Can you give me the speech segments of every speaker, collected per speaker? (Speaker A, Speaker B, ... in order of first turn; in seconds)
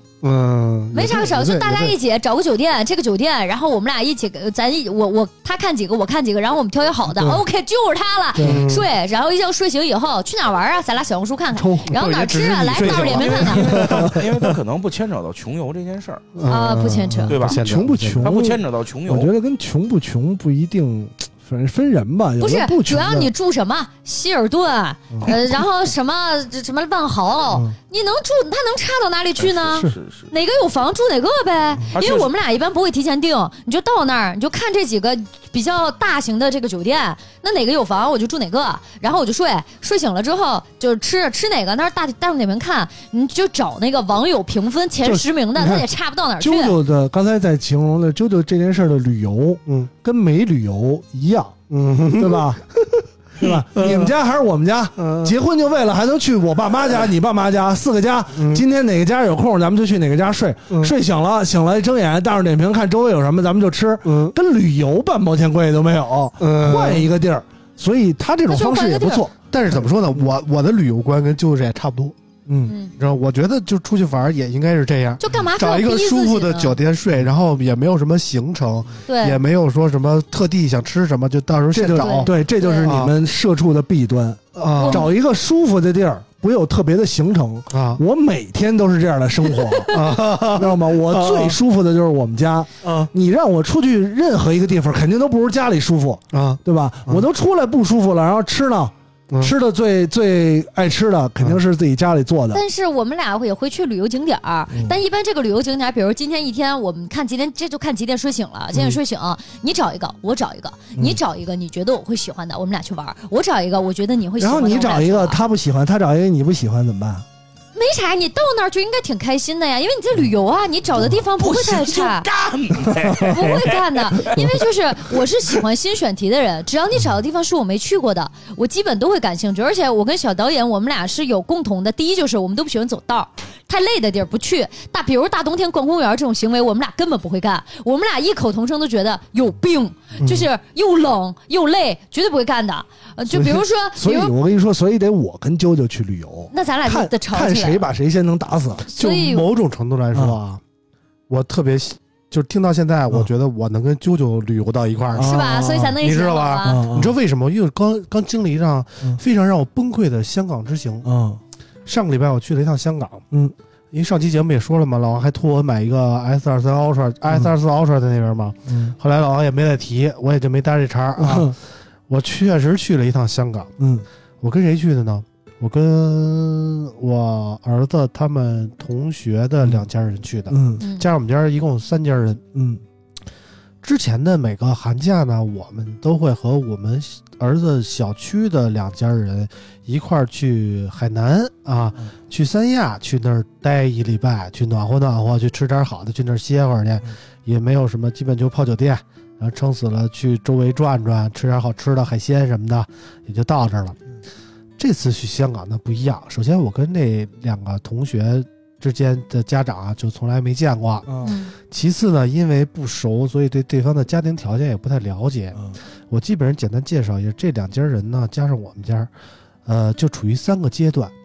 Speaker A: 0.2-2.0, 8.4-8.9, 11.9-14.6, 16.4-18.3, 51.7-52.6, 53.4-54.1, 55.0-55.4, 58.3-58.6, 64.0-64.4, 66.4-67.1, 69.5-72.2, 73.0-83.2, 84.5-85.1, 87.7-88.0, 89.9-91.6, 92.8-93.1, 96.3-97.3, 99.3-99.5, 148.9-150.6, 151.3-161.1, 161.9-163.3, 163.9-171.6, 172.1-173.7, 174.4-182.4, 183.8-204.0, 204.8-219.1, 219.7-221.1
Speaker B: 0.9-13.7, 16.5-17.4, 22.4-46.8, 68.5-69.2, 72.7-72.9, 75.2-76.8, 79.1-79.4, 82.0-82.9, 84.8-85.1, 102.5-115.4, 117.7-122.3, 123.2-144.3, 146.5-147.9, 148.9-149.5, 155.2-156.8, 180.8-181.1, 211.2-211.5
Speaker C: 7.1-7.4, 8.4-8.6, 11.5-11.9, 13.7-14.2, 17.5-23.3, 45.0-45.9, 46.4-51.5, 52.1-69.3, 72.5-72.8, 81.7-90.0, 90.5-102.6, 114.4-117.2, 123.0-123.3, 143.3-148.9, 155.1-156.0, 156.7-157.2, 161.0-161.4, 168.7-169.0, 171.2-171.6, 173.8-174.1, 180.5-180.8, 182.5-182.8, 211.1-211.3
Speaker D: 12.8-16.2, 17.3-17.7, 18.2-19.3, 29.4-30.3, 31.9-32.3, 121.4-124.6